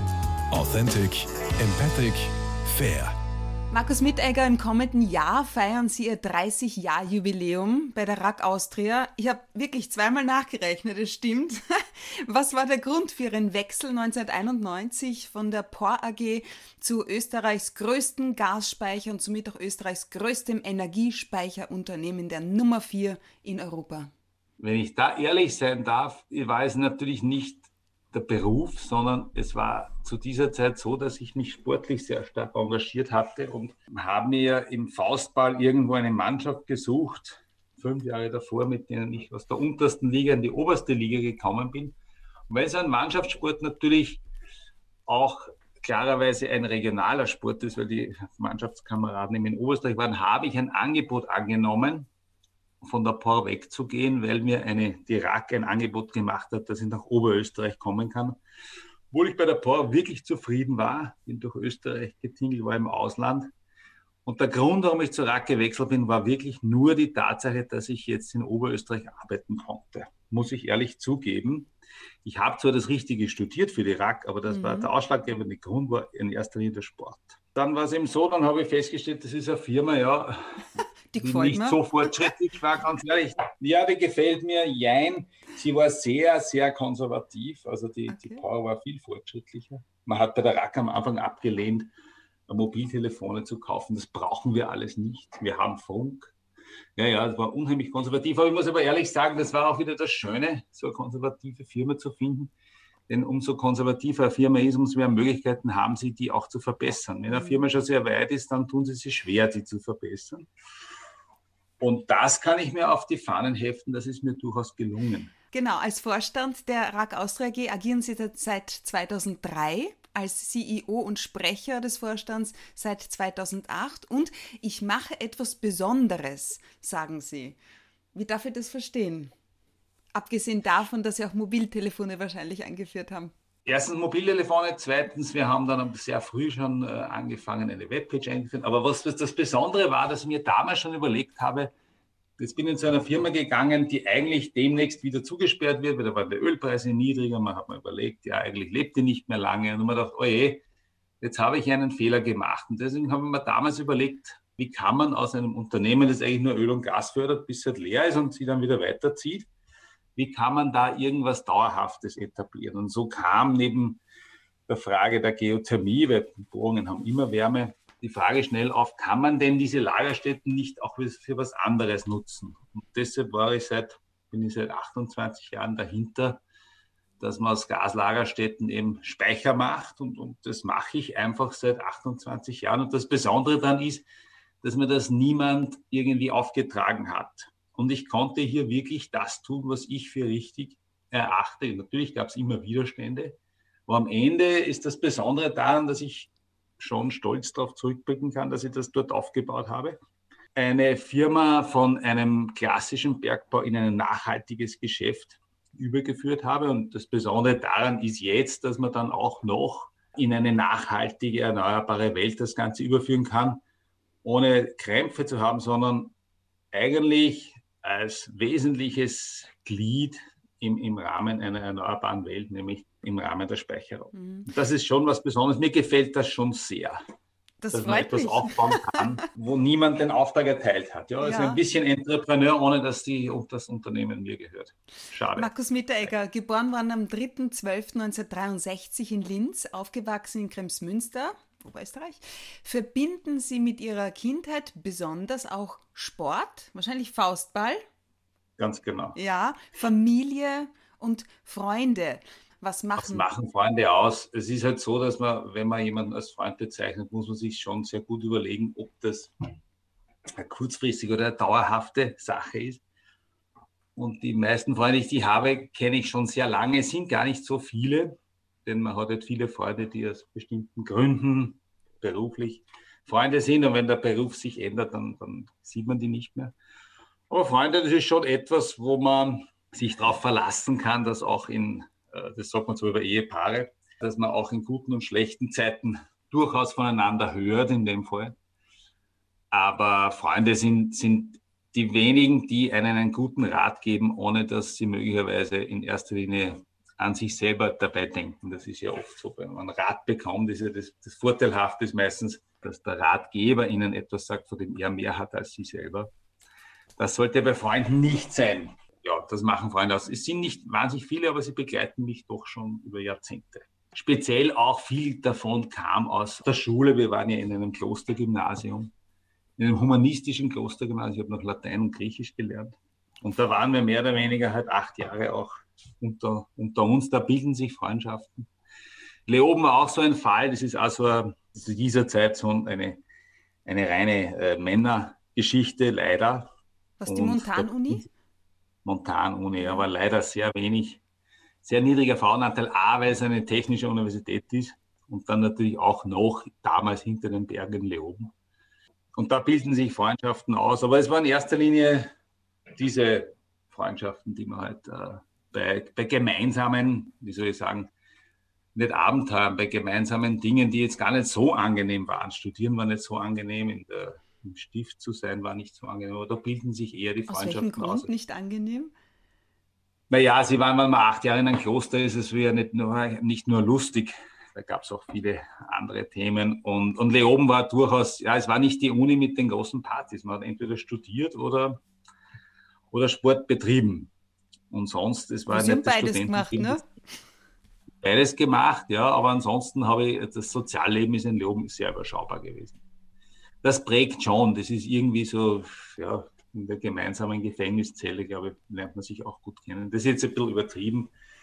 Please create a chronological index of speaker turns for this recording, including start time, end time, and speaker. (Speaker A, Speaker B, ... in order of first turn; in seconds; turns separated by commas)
Speaker A: 0.5-3.1, Speaker B: 3.7-24.1, Speaker C: 24.6-42.0, Speaker C: 42.5-44.2, Speaker C: 45.1-52.1, Speaker C: 52.8-58.4, Speaker C: 59.1-63.5, Speaker C: 64.2-71.7, Speaker C: 72.2-80.6, Speaker B: 74.5-74.9, Speaker B: 81.1-82.2, Speaker C: 81.2-91.9, Speaker B: 88.1-88.4, Speaker C: 92.5-96.3, Speaker C: 97.0-102.5, Speaker C: 103.1-110.5, Speaker B: 107.3-107.7, Speaker C: 111.8-115.3, Speaker B: 115.5-127.6, Speaker B: 128.1-129.3, Speaker B: 130.1-133.3, Speaker C: 133.6-141.7, Speaker C: 142.4-150.6, Speaker C: 151.2-159.5, Speaker C: 160.2-164.0, Speaker C: 164.7-176.4, Speaker C: 177.2-184.1, Speaker C: 184.6-200.0, Speaker C: 200.5-213.6, Speaker C: 214.2-216.1, Speaker C: 216.7-227.0, Speaker B: 224.1-224.5, Speaker B: 227.6-229.0, Speaker C: 227.7-235.5, Speaker B: 231.2-231.6, Speaker B: 235.3-247.8, Speaker C: 248.6-249.2, Speaker B: 249.2-253.3, Speaker C: 253.0-259.3, Speaker C: 260.4-262.8, Speaker C: 263.9-276.5, Speaker C: 277.3-288.4, Speaker C: 289.5-306.1, Speaker C: 307.0-318.9, Speaker C: 319.6-328.5, Speaker C: 329.3-333.0, Speaker C: 333.6-336.5, Speaker B: 337.0-338.1, Speaker C: 337.1-338.0, Speaker C: 338.8-341.0, Speaker C: 341.6-348.3, Speaker C: 349.1-352.1, Speaker C: 352.8-357.9, Speaker C: 358.7-368.1, Speaker B: 367.3-368.9, Speaker C: 370.1-381.8, Speaker C: 382.9-384.1, Speaker C: 384.7-386.8, Speaker B: 385.5-386.8, Speaker C: 388.0-392.8, Speaker C: 393.6-401.1